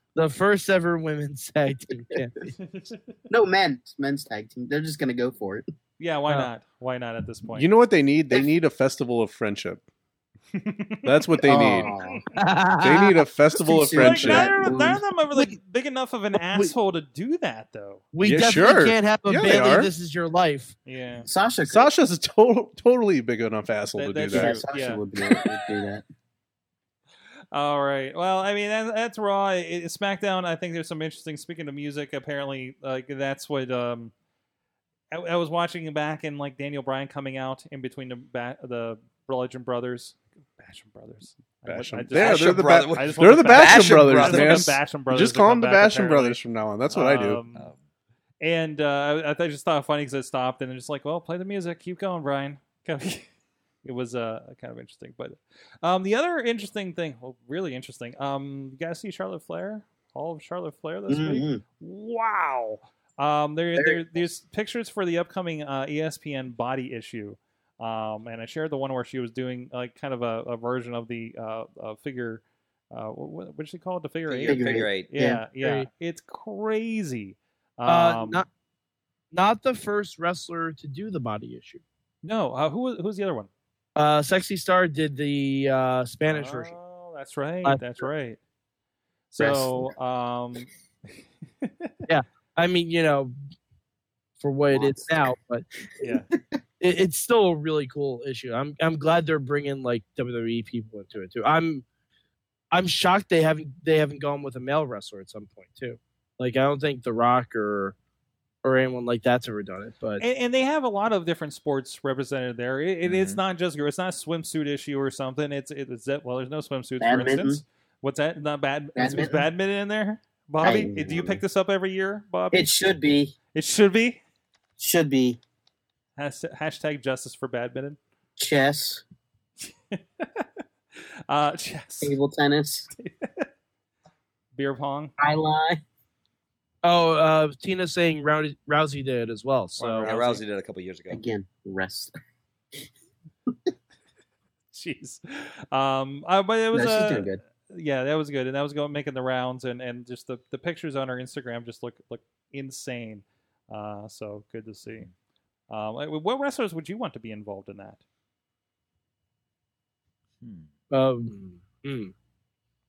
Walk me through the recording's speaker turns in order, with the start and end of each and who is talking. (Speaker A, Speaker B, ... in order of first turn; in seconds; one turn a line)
Speaker A: 0.1-2.5
Speaker B: 2.6-2.9
Speaker C: 3.3-5.6
Speaker B: 6.0-7.7
Speaker D: 7.5-9.8
Speaker B: 10.6-12.2
Speaker D: 11.0-11.9
Speaker C: 11.4-12.2
Speaker A: 12.3-13.2
Speaker D: 12.8-14.6
Speaker C: 13.6-15.0
Speaker B: 14.0-18.0
Speaker A: 16.5-16.8
Speaker A: 18.1-20.8
Speaker D: 18.2-19.9
Speaker B: 20.9-21.3
Speaker C: 21.3-21.9
Speaker D: 21.7-24.6
Speaker B: 24.0-25.0
Speaker C: 24.3-26.1
Speaker B: 27.5-34.1
Speaker B: 35.1-47.7
Speaker D: 41.7-47.4
Speaker E: 42.1-44.8
Speaker B: 48.4-53.3
Speaker B: 53.8-78.4
Speaker C: 61.1-61.6
Speaker C: 63.8-64.2
Speaker E: 74.3-75.1
Speaker C: 74.5-75.4
Speaker A: 75.6-75.9
Speaker A: 77.9-78.5
Speaker A: 79.3-81.8
Speaker B: 82.2-83.5
Speaker A: 84.0-86.7
Speaker B: 86.3-88.4
Speaker B: 89.3-90.7
Speaker C: 89.4-89.9
Speaker B: 91.6-91.9
Speaker A: 92.1-93.3
Speaker A: 94.4-95.7
Speaker C: 94.7-95.3
Speaker C: 96.0-96.5
Speaker A: 96.8-101.8
Speaker A: 102.7-108.0
Speaker A: 108.6-110.2
Speaker B: 110.2-122.7
Speaker E: 113.0-113.4
Speaker C: 117.0-117.6
Speaker C: 119.0-119.5
Speaker C: 120.6-121.4
Speaker C: 122.5-123.3
Speaker B: 123.5-124.2
Speaker C: 124.8-125.4
Speaker B: 126.2-128.0
Speaker C: 128.4-129.0
Speaker B: 129.9-130.5
Speaker B: 131.3-132.2
Speaker C: 132.0-132.9
Speaker B: 133.0-133.5
Speaker B: 134.6-135.1
Speaker C: 135.2-135.8
Speaker A: 136.8-140.1
Speaker B: 139.8-140.4
Speaker E: 140.0-141.2
Speaker C: 141.1-142.1
Speaker B: 144.7-155.1
Speaker C: 146.7-147.4
Speaker B: 155.7-158.0
Speaker E: 160.4-160.7
Speaker A: 160.9-162.1